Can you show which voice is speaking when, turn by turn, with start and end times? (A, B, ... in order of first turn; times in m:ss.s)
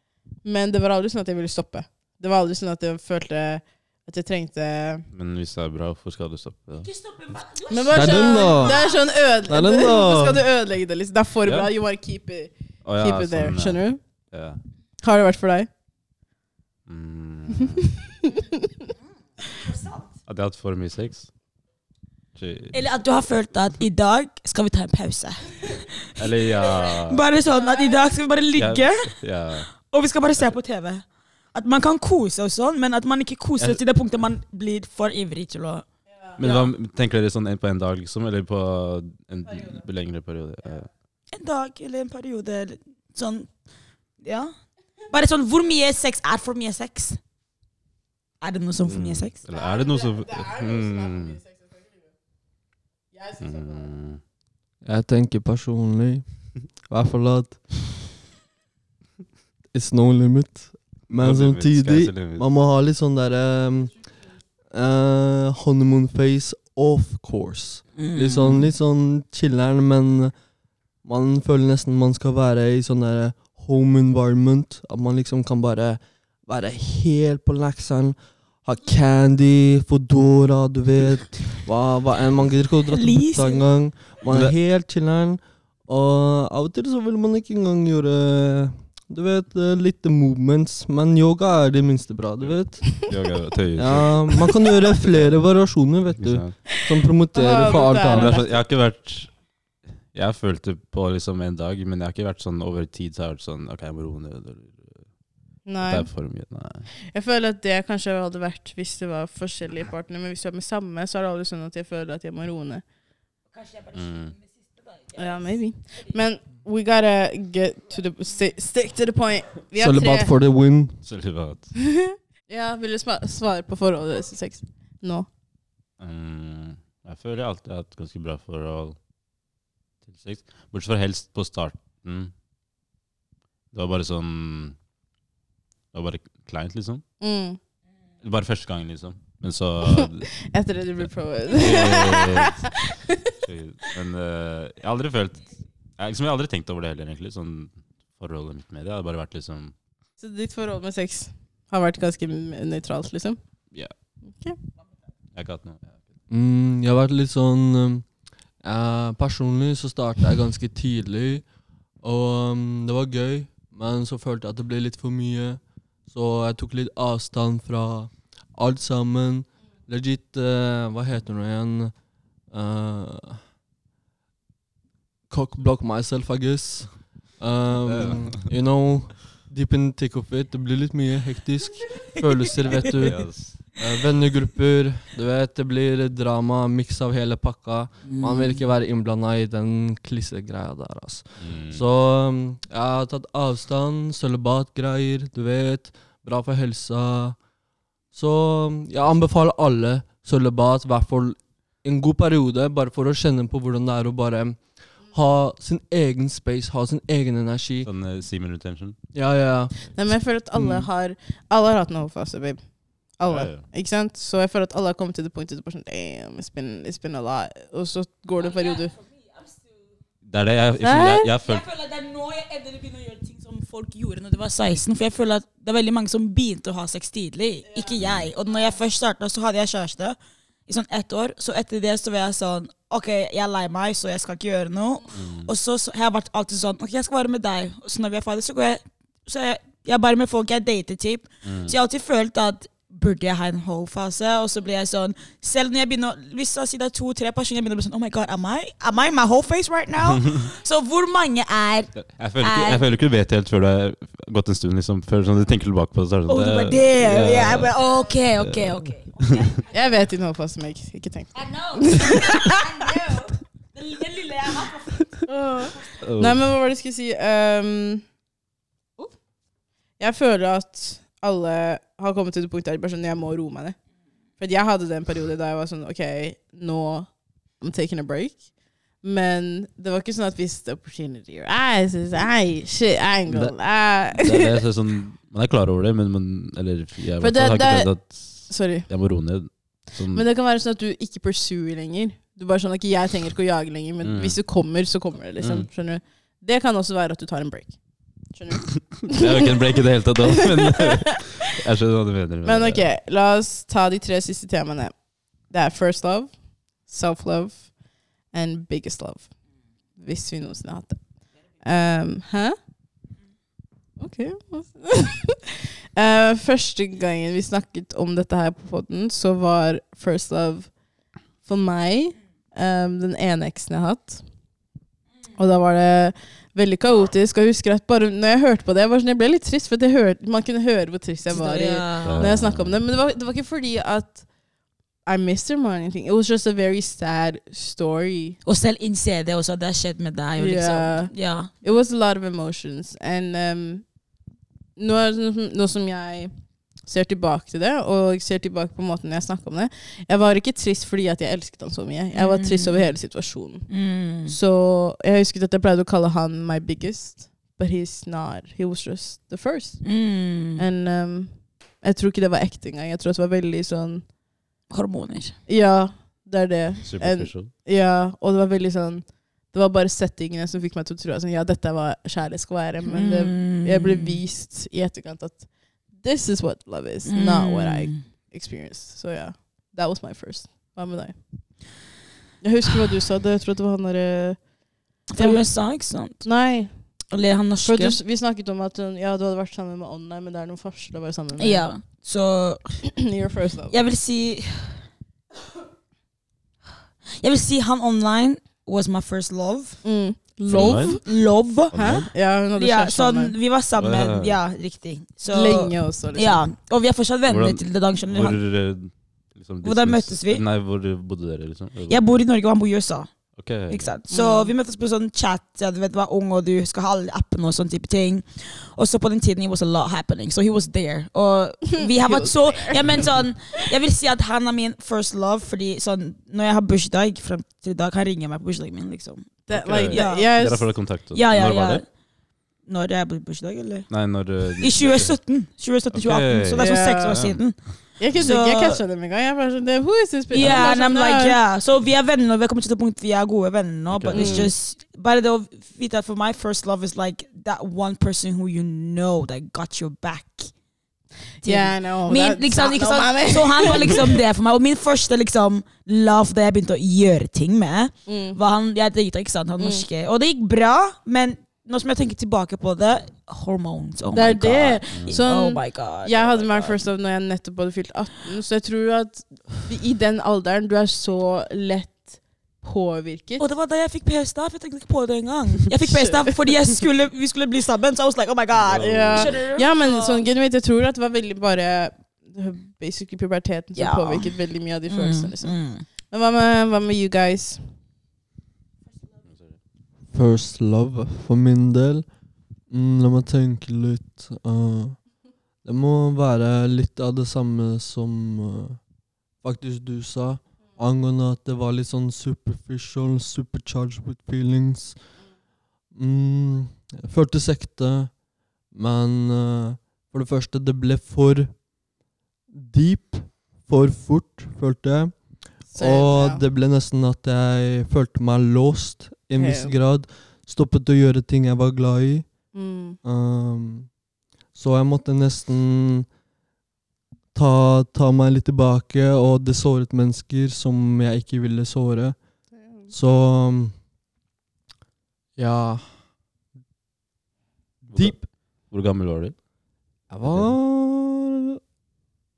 0:00.4-0:05.0 A
0:05.1-0:06.9 B
0:06.8-0:08.9 C
0:07.7-0:14.0 A
0:07.9-0:08.8 D
0:09.5-0:10.4 D
0:11.4-0:11.7 B
0:12.8-0:14.6 B
0:15.0-0:15.7 A
0:16.9-0:17.8 B
0:18.2-0:18.6 A
0:19.6-0:20.0 C
0:20.2-0:21.3 B
0:22.4-0:22.8 B
0:22.7-0:35.8 C
0:26.2-0:27.2 B
0:28.6-0:29.7 B
0:36.4-0:36.6 C
0:36.4-0:40.9 B
0:41.3-0:43.5 C
0:44.2-0:47.2 C
0:48.4-0:49.3 C
0:48.8-0:51.4 B
0:53.4-0:54.2 B
0:54.8-0:57.6 D
0:59.7-1:10.3 D
1:01.1-1:02.4 B
1:08.0-1:08.7 C
1:11.0-1:33.1 D
1:22.9-1:23.7 C
1:24.3-1:24.5 B
1:32.4-1:34.7 B
1:33.8-1:38.4 D
1:36.1-1:36.6 B
1:36.7-1:38.6 A
1:37.7-1:39.5 B
1:40.1-1:46.9 B
1:45.6-1:46.3 A
1:47.1-1:52.8 A
1:53.9-1:54.3 B
1:55.1-2:00.3 A
1:59.8-2:01.0 D
2:01.0-2:01.8 B
2:02.0-2:05.3 A
2:06.0-2:09.0 B
2:10.0-2:12.3 B
2:13.7-2:14.8 B
2:15.9-2:17.0 B
2:17.2-2:17.6 A
2:18.2-2:20.4 B
2:20.5-2:23.3 A
2:21.0-2:22.8 B
2:23.4-2:29.8 B
2:30.2-2:33.4 A
2:34.3-2:34.6 A
2:35.3-2:36.0 B
2:36.3-2:53.4 D
2:55.3-3:17.4 D
2:57.7-2:58.5 B
3:03.0-3:03.6 B
3:08.0-3:08.6 C
3:11.4-3:11.8 B
3:18.1-3:27.9 D
3:27.8-3:29.0 B
3:29.1-3:30.9 D
3:29.9-3:38.9 A
3:33.3-3:33.6 B
3:40.2-3:41.6 B
3:40.8-3:41.3 A
3:41.4-4:12.8 C
3:48.0-3:48.3 B
3:55.1-3:55.5 B
4:01.4-4:01.7 B
4:10.1-4:10.3 B
4:12.0-4:17.7 B
4:16.3-4:19.6 C
4:18.4-4:19.3 B
4:19.7-4:22.8 A
4:21.4-4:25.3 C
4:25.2-4:28.1 A
4:26.0-4:26.4 B
4:30.0-4:33.8 A
4:34.4-4:38.5 A
4:39.0-4:44.5 A
4:43.3-4:43.6 D
4:44.2-4:50.2 B
4:47.2-4:48.9 A
4:49.5-4:59.2 A
4:54.0-4:54.5 B
4:55.4-4:55.7 B
4:59.1-5:02.9 B
5:02.4-5:12.6 A
5:14.0-5:20.8 A
5:21.4-5:24.3 A
5:25.3-5:34.4 A
5:31.3-5:32.3 C
5:32.0-5:32.8 B
5:35.0-5:38.4 A
5:38.4-5:41.5 C
5:40.4-5:44.0 A
5:44.8-6:00.0 A
5:52.1-5:52.9 C
5:53.7-5:54.3 C
5:59.8-6:00.6 C
6:00.5-6:04.1 A
6:04.7-6:05.4 C
6:05.5-6:21.7 A
6:06.8-6:07.5 B
6:12.9-6:14.2 C
6:17.1-6:18.0 C
6:22.4-6:24.5 A
6:25.1-6:28.0 C
6:25.1-6:31.7 A
6:31.4-6:33.0 C
6:33.0-6:33.7 A
6:33.7-6:34.9 C
6:37.2-6:48.4 C
6:39.8-6:41.0 A
6:40.5-6:41.1 B
6:41.7-6:42.1 B
6:41.7-6:43.3 A
6:43.8-6:44.4 B
6:45.3-6:46.5 A
6:47.3-6:52.0 B
6:49.6-6:50.4 C
6:51.9-7:10.6 C
6:53.3-6:53.9 B
6:54.1-6:54.5 A
7:01.8-7:03.0 A
7:09.5-7:10.8 A
7:09.5-7:11.8 B
7:11.1-7:11.9 C
7:12.6-7:13.9 C
7:13.9-7:15.2 B
7:14.6-7:18.8 C
7:15.9-7:18.3 B
7:16.6-7:17.3 A
7:18.0-7:21.4 A
7:20.3-7:30.5 C
7:23.9-7:24.5 B
7:24.1-7:24.5 A
7:31.4-7:34.1 A
7:31.4-7:46.8 C
7:38.1-7:38.4 A
7:44.1-7:53.4 A
7:44.9-7:45.2 B
7:53.4-8:00.2 C
7:55.9-7:56.2 A
7:58.6-7:59.4 B
7:58.8-8:07.8 A
8:03.8-8:05.8 C
8:09.2-8:09.6 B
8:10.1-8:25.1 D
8:25.9-8:31.8 D
8:32.5-8:44.0 D
8:35.7-8:36.4 A
8:39.4-8:39.7 A
8:42.5-8:43.0 A
8:44.5-8:46.1 D
8:47.3-8:53.8 D
8:55.4-8:56.0 D
8:57.8-8:58.3 D
8:57.9-8:59.5 B
9:00.1-9:01.6 D
9:00.2-9:00.5 B